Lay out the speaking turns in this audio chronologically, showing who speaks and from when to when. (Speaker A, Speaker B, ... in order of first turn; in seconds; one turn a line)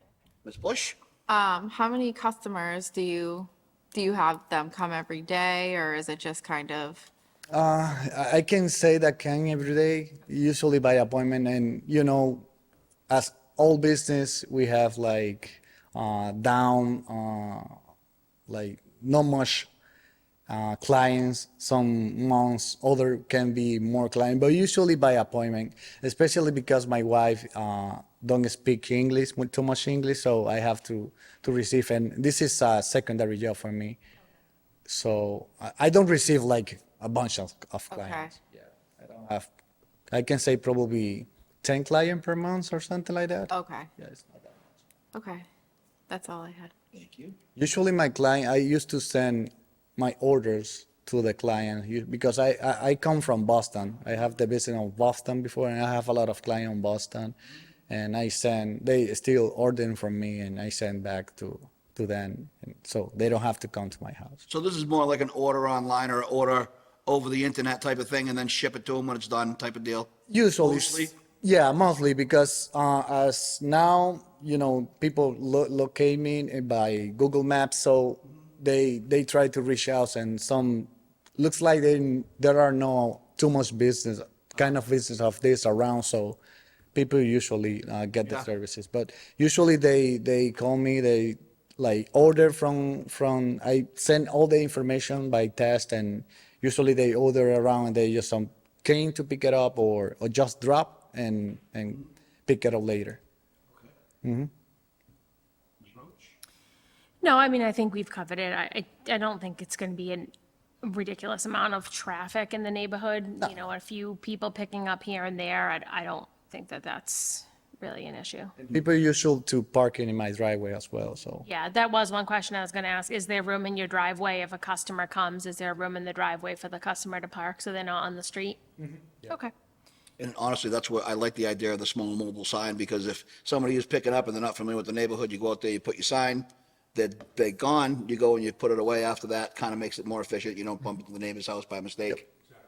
Speaker A: 0.5-1.0
Speaker B: 1.3-7.1
Speaker C: 7.5-12.4
Speaker C: 13.1-17.8
Speaker C: 18.5-19.7
Speaker C: 20.5-34.0
Speaker C: 34.9-39.5
Speaker B: 37.9-38.3
Speaker C: 40.1-44.5
Speaker B: 43.5-43.9
Speaker B: 45.1-45.5
Speaker B: 46.1-46.8
Speaker A: 46.9-47.3
Speaker C: 47.5-57.4
Speaker C: 57.9-64.5
Speaker A: 64.5-70.1
Speaker C: 70.3-86.4
Speaker A: 70.6-71.1
Speaker C: 86.9-103.2
Speaker C: 104.2-104.5
Speaker D: 107.2-118.6
Speaker C: 118.7-121.5
Speaker D: 121.4-128.6
Speaker D: 129.2-129.5
Speaker A: 130.2-142.3